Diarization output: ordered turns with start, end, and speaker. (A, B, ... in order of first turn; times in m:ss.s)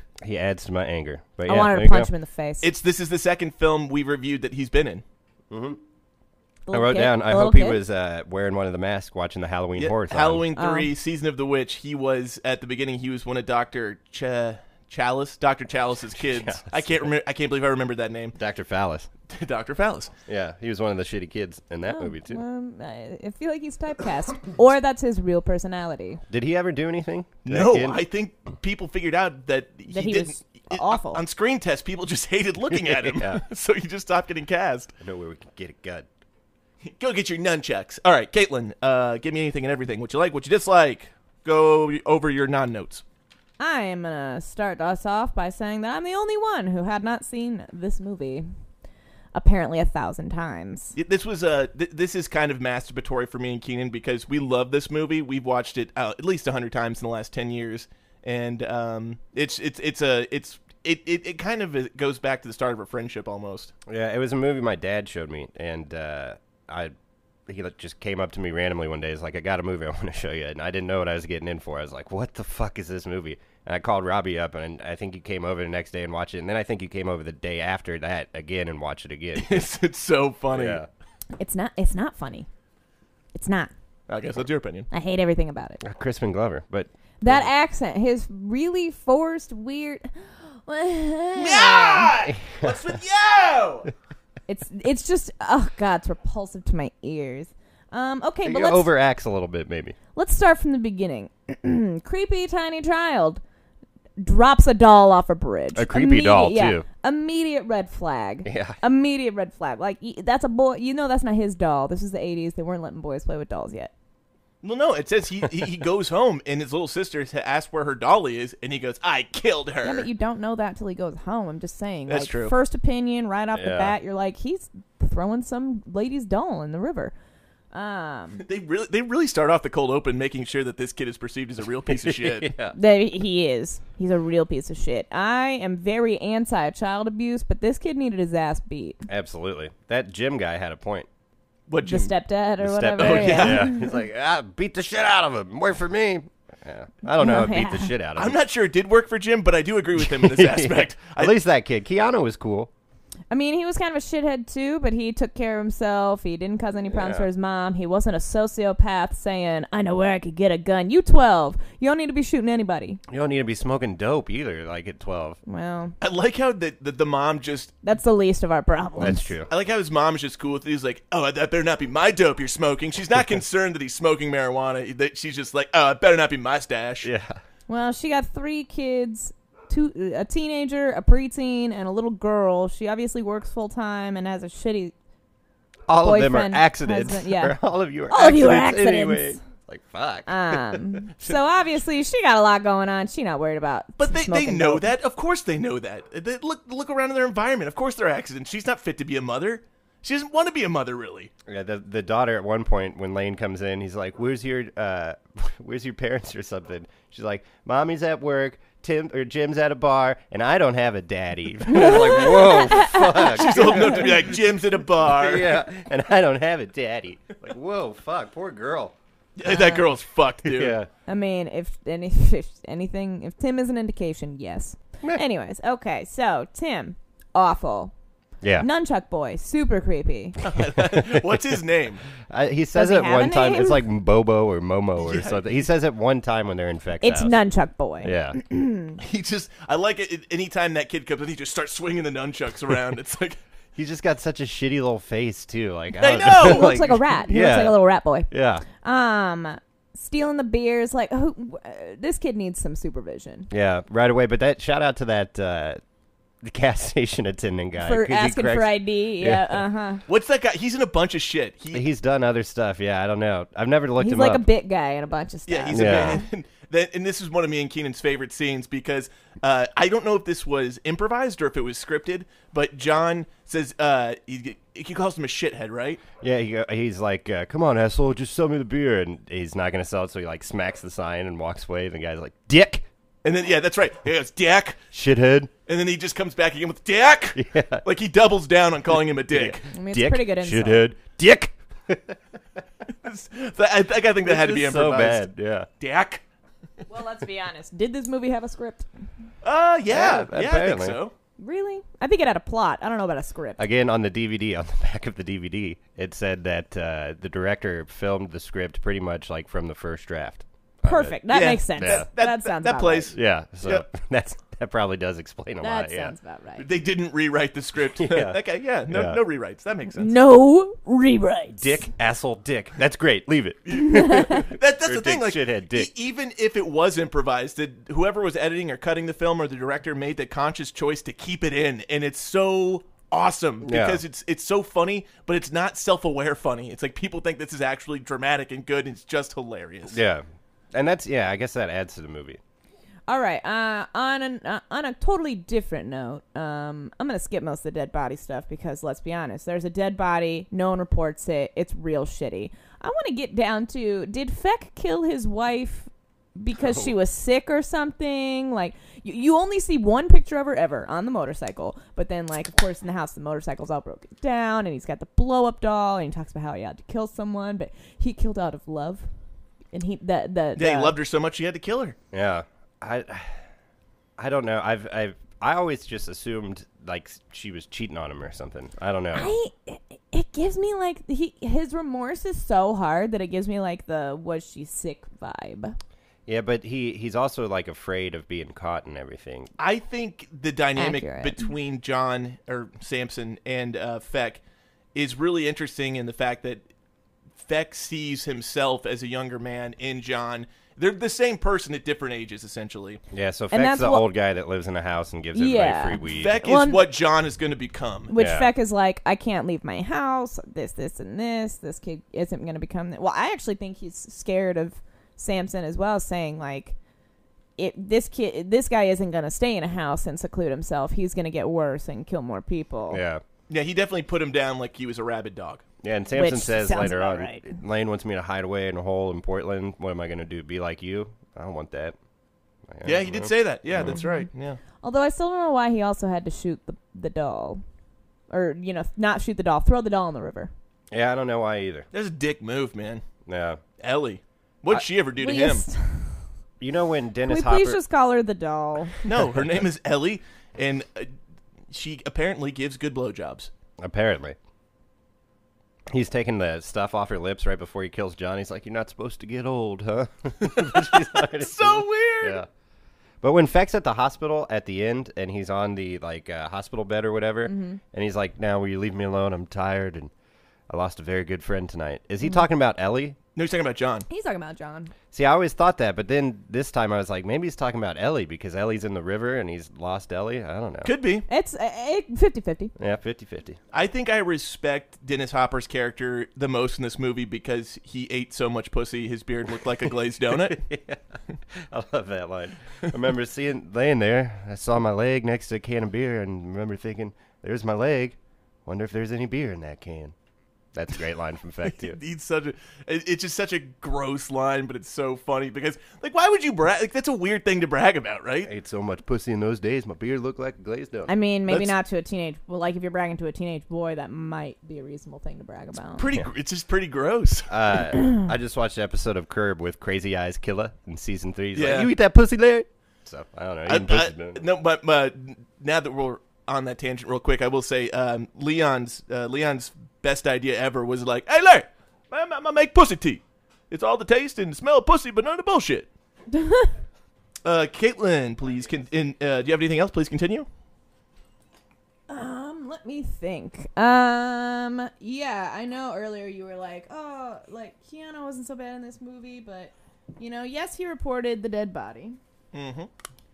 0:00.2-0:02.1 A
0:01.4-0:02.7 B
0:02.6-0:05.0 C
0:05.5-0:05.8 A
0:06.7-0:07.8 B
0:06.7-0:10.5 A
0:09.8-0:18.4 C
0:10.6-0:10.9 B
0:16.2-0:17.0 A
0:18.3-0:19.1 A
0:19.3-0:20.1 C
0:20.3-0:22.4 A
0:21.8-0:26.2 B
0:26.3-0:28.0 A
0:27.4-0:34.9 C
0:29.9-0:31.2 B
0:32.8-0:33.4 A
0:35.0-0:36.1 A
0:36.8-0:43.0 C
0:43.6-0:48.5 B
0:49.3-0:51.0 B
0:51.0-1:03.7 C
1:03.9-1:06.9 A
1:07.5-1:19.6 A
1:19.4-1:20.8 C
1:20.5-1:20.9 A
1:21.4-1:22.5 B
1:23.3-1:23.7 B
1:24.1-1:24.9 C
1:24.9-1:25.8 B
1:25.8-1:27.4 A
1:27.2-1:32.1 B
1:31.4-1:33.9 C
1:34.5-1:38.9 B
1:38.4-1:40.0 A
1:40.1-1:43.4 B
1:44.2-1:53.9 B
1:45.7-1:46.8 A
1:48.4-1:48.8 A
1:54.6-2:00.1 C
1:59.8-2:07.1 B
2:02.1-2:02.5 C
2:03.5-2:03.9 A
2:07.7-2:08.4 B
2:08.4-2:12.5 C
2:11.9-2:12.7 A
2:12.7-2:19.0 B
2:19.1-2:21.1 A
2:21.7-2:22.1 C
2:21.8-2:23.9 B
2:22.6-2:28.4 A
2:23.0-2:23.7 C
2:27.2-2:27.9 B
2:28.2-2:31.4 C
2:30.0-2:32.7 A
2:33.3-2:43.0 B
2:36.9-2:37.3 A
2:43.1-2:45.4 A
2:45.5-2:45.9 B
2:46.0-2:47.7 C
2:47.8-2:49.3 B
2:49.0-2:49.5 A
2:49.5-2:57.1 C
2:57.0-2:57.4 A
2:57.7-3:04.9 B
3:05.9-3:11.0 A
3:06.0-3:07.6 B
3:08.1-3:09.4 B
3:10.3-3:14.9 B
3:14.0-3:21.3 C
3:21.4-3:34.4 A
3:31.7-3:34.1 B
3:33.4-3:35.6 C
3:35.0-3:38.9 A
3:39.4-3:40.8 C
3:39.5-3:39.8 B
3:40.4-3:40.9 A
3:41.0-3:47.9 B
3:48.4-3:48.7 A
3:48.6-3:50.4 B
3:50.4-3:52.0 C
3:50.8-3:51.4 A
3:52.2-3:57.4 A
3:52.7-3:53.8 B
3:55.0-3:55.6 C
3:57.0-3:59.0 B
3:58.0-3:58.4 A
3:59.0-4:03.4 C
4:03.8-4:08.6 A
4:06.0-4:07.0 C
4:06.4-4:13.5 B
4:13.5-4:15.8 A
4:16.4-4:19.6 A
4:17.8-4:20.0 B
4:20.1-4:21.8 C
4:21.7-4:24.4 A
4:24.0-4:26.2 B
4:25.5-4:36.0 C
4:25.7-4:26.2 A
4:36.2-4:42.8 A
4:43.2-4:44.8 C
4:44.9-4:45.5 A
4:45.7-4:49.7 C
4:47.3-4:47.8 A
4:49.3-4:52.2 A
4:49.7-4:50.9 B
4:53.0-4:55.3 C
4:54.2-4:55.7 A
4:55.8-4:56.2 C
4:56.9-4:58.9 B
4:59.4-5:01.1 C
4:59.9-5:01.0 A
5:01.4-5:03.6 B
5:03.6-5:12.1 A
5:10.8-5:13.1 B
5:11.3-5:13.8 C
5:13.1-5:16.1 A
5:15.6-5:16.7 B
5:16.6-5:20.1 C
5:18.0-5:19.2 A
5:19.9-5:21.8 B
5:21.6-5:25.9 A
5:23.7-5:40.0 C
5:23.9-5:24.4 B
5:33.6-5:34.0 A
5:39.9-5:42.4 A
5:43.1-6:09.1 B
6:09.7-6:11.0 B
6:10.6-6:12.0 C
6:12.1-6:13.4 A
6:14.2-6:19.3 A
6:19.1-6:25.8 B
6:26.3-6:29.5 A
6:29.6-6:34.4 C
6:30.8-6:31.5 B
6:34.9-6:36.6 C
6:37.4-6:43.0 C
6:43.1-6:46.4 A
6:43.5-6:44.1 B
6:45.3-6:46.9 B
6:46.1-6:48.1 C
6:48.1-6:56.7 B
6:48.1-6:48.5 A
6:57.6-7:03.0 B
7:02.9-7:03.2 A
7:03.5-7:05.6 C
7:05.8-7:12.0 A
7:06.1-7:07.5 B
7:12.7-7:14.0 A
7:12.8-7:14.6 C
7:13.9-7:14.3 B
7:14.8-7:17.6 B
7:18.3-7:20.5 B
7:20.9-7:21.9 A
7:21.9-7:23.0 C
7:23.2-7:23.6 A
7:23.8-7:25.6 C
7:25.2-7:26.2 B
7:26.6-7:27.8 A
7:27.3-7:29.0 B
7:29.0-7:31.1 C
7:31.7-7:33.5 C
7:33.8-7:34.4 A
7:35.9-7:42.5 A
7:40.6-7:42.4 C
7:43.2-7:50.1 A
7:47.4-7:47.8 B
7:50.7-7:53.2 A
7:53.4-7:54.1 C
7:54.1-7:54.9 B
7:55.1-8:00.9 A
8:00.8-8:01.2 C
8:01.3-8:02.7 B
8:02.8-8:03.6 A
8:03.7-8:10.6 C
8:10.3-8:20.1 A
8:20.7-8:22.0 A
8:21.7-8:28.5 C
8:28.4-8:31.1 A
8:31.1-8:36.1 B
8:36.0-8:37.5 C
8:37.5-8:44.4 A
8:41.5-8:41.9 C
8:43.7-8:55.9 C
8:56.3-8:56.7 B
8:57.4-9:00.5 C
9:02.1-9:12.2 B
9:12.5-9:12.9 C